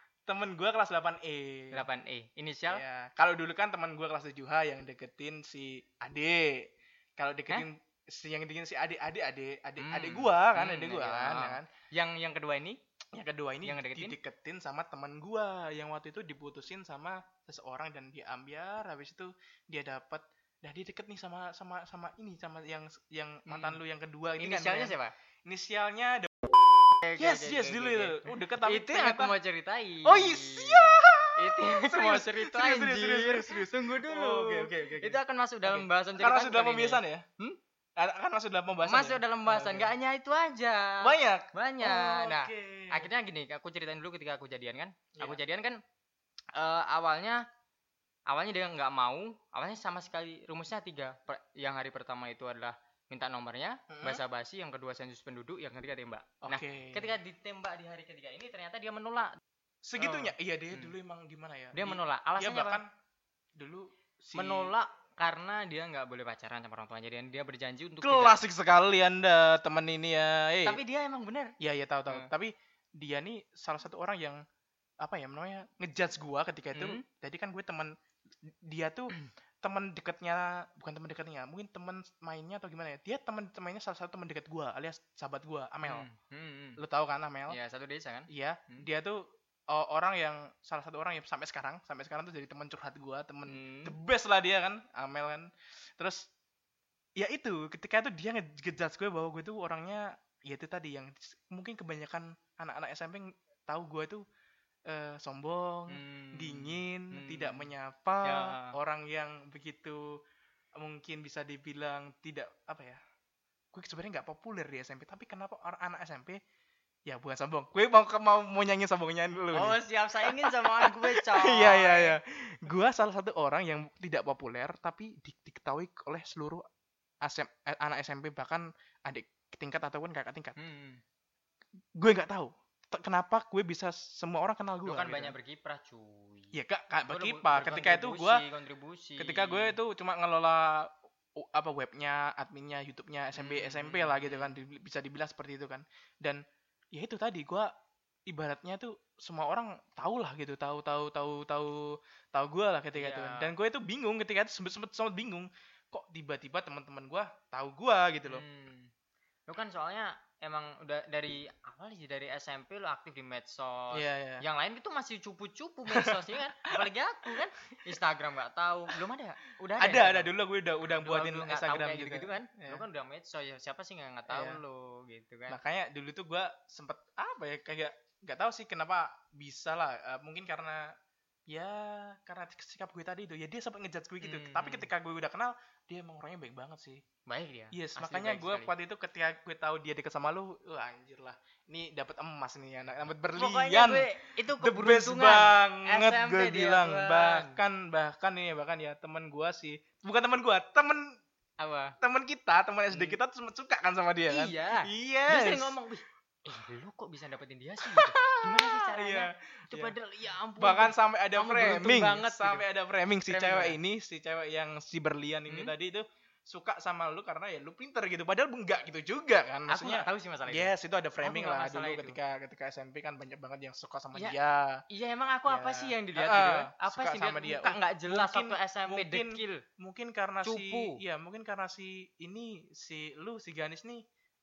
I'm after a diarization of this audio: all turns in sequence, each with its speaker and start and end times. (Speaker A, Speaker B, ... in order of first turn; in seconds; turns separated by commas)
Speaker A: 0.3-1.9, Speaker B: 1.7-2.8, Speaker A: 2.7-11.7, Speaker B: 9.8-12.8, Speaker A: 13.1-26.4, Speaker B: 13.6-14.2, Speaker B: 23.5-23.8, Speaker B: 24.4-25.1, Speaker B: 27.0-37.6, Speaker A: 27.2-29.3, Speaker A: 30.1-37.3, Speaker A: 38.0-39.9, Speaker B: 38.8-45.8, Speaker A: 41.0-43.1, Speaker A: 45.1-45.4, Speaker B: 46.5-47.4, Speaker B: 48.3-59.4, Speaker A: 53.9-54.2, Speaker A: 56.4-57.1, Speaker A: 59.8-62.9, Speaker B: 60.0-60.9, Speaker B: 61.7-62.8, Speaker A: 63.6-64.7, Speaker B: 64.3-68.4, Speaker A: 68.0-70.8, Speaker B: 70.7-71.5, Speaker A: 71.6-74.4, Speaker A: 75.0-86.1, Speaker B: 76.7-77.0, Speaker B: 85.8-86.8, Speaker A: 86.8-87.6, Speaker B: 87.5-88.9, Speaker A: 88.3-96.3, Speaker B: 93.5-94.0, Speaker A: 97.2-104.2, Speaker A: 104.9-110.2, Speaker B: 105.9-107.7, Speaker B: 108.2-108.8, Speaker A: 110.8-113.0, Speaker A: 113.7-116.4, Speaker A: 117.1-126.7, Speaker B: 119.5-122.2, Speaker A: 127.2-130.6, Speaker B: 130.6-131.0, Speaker A: 132.0-135.3, Speaker B: 134.8-136.6, Speaker A: 136.5-138.4, Speaker B: 137.1-139.8, Speaker A: 139.2-147.7, Speaker B: 143.3-144.6, Speaker A: 148.3-158.4, Speaker B: 152.9-153.5, Speaker B: 158.3-158.9, Speaker B: 159.5-170.3, Speaker A: 163.9-164.4, Speaker A: 165.9-166.7, Speaker A: 169.8-172.8, Speaker B: 171.0-175.6, Speaker A: 174.3-174.6, Speaker A: 175.5-180.9, Speaker A: 181.5-187.0, Speaker B: 184.2-184.9, Speaker B: 187.3-188.7, Speaker A: 187.7-194.1, Speaker B: 193.4-197.6, Speaker A: 194.6-201.2, Speaker B: 201.6-201.9, Speaker A: 202.0-205.8, Speaker B: 202.9-203.2, Speaker B: 204.3-212.7, Speaker A: 207.8-209.9, Speaker A: 210.6-224.8, Speaker B: 213.3-213.8, Speaker B: 219.7-222.2, Speaker B: 224.9-229.7, Speaker A: 225.5-234.0, Speaker B: 230.4-231.0